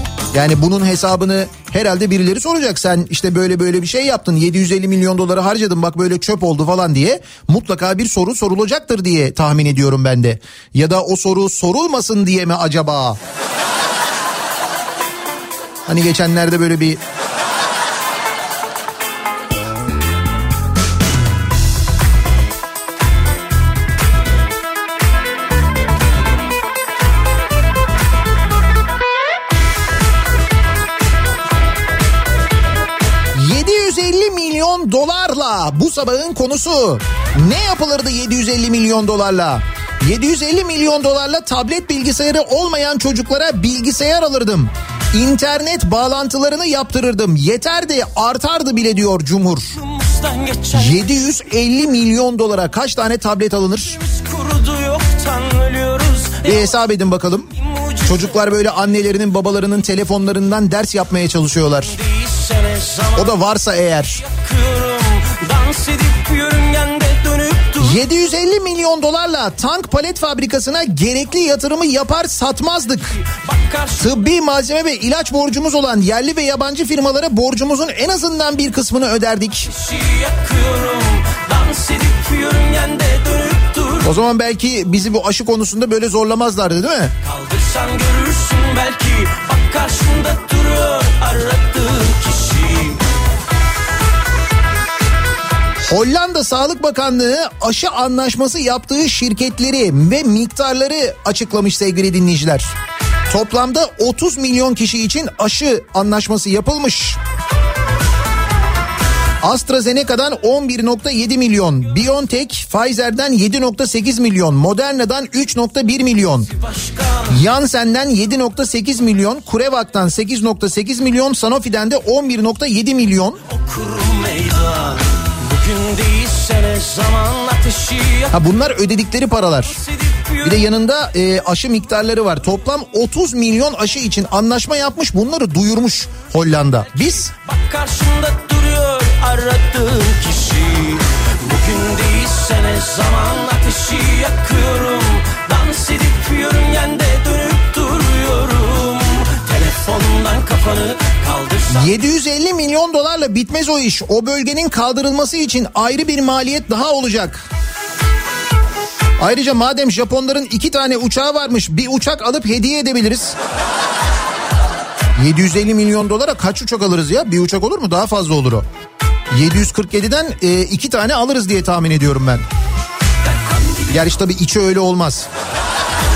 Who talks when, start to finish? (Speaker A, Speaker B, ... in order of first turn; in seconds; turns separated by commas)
Speaker A: 0.3-13.2, Speaker A: 15.9-17.0, Speaker A: 33.3-49.7, Speaker B: 49.8-51.0, Speaker A: 50.7-54.0, Speaker B: 54.0-56.7, Speaker A: 56.4-57.5, Speaker B: 57.6-58.3, Speaker A: 58.0-62.0, Speaker B: 62.0-63.3, Speaker A: 63.1-64.2, Speaker B: 64.2-68.0, Speaker A: 67.8-73.2, Speaker B: 73.2-74.1, Speaker A: 74.0-79.7, Speaker B: 79.7-84.1, Speaker A: 84.0-87.1, Speaker B: 87.2-93.0, Speaker A: 95.8-102.7, Speaker A: 103.3-107.2, Speaker A: 109.4-116.5, Speaker B: 116.6-117.4, Speaker A: 117.3-123.4, Speaker B: 123.5-128.3, Speaker A: 128.3-129.8, Speaker B: 129.8-130.6, Speaker A: 130.4-137.3, Speaker B: 137.3-151.9, Speaker A: 151.7-157.4, Speaker A: 159.2-163.3, Speaker A: 165.2-168.7, Speaker A: 169.3-172.4, Speaker A: 173.9-175.3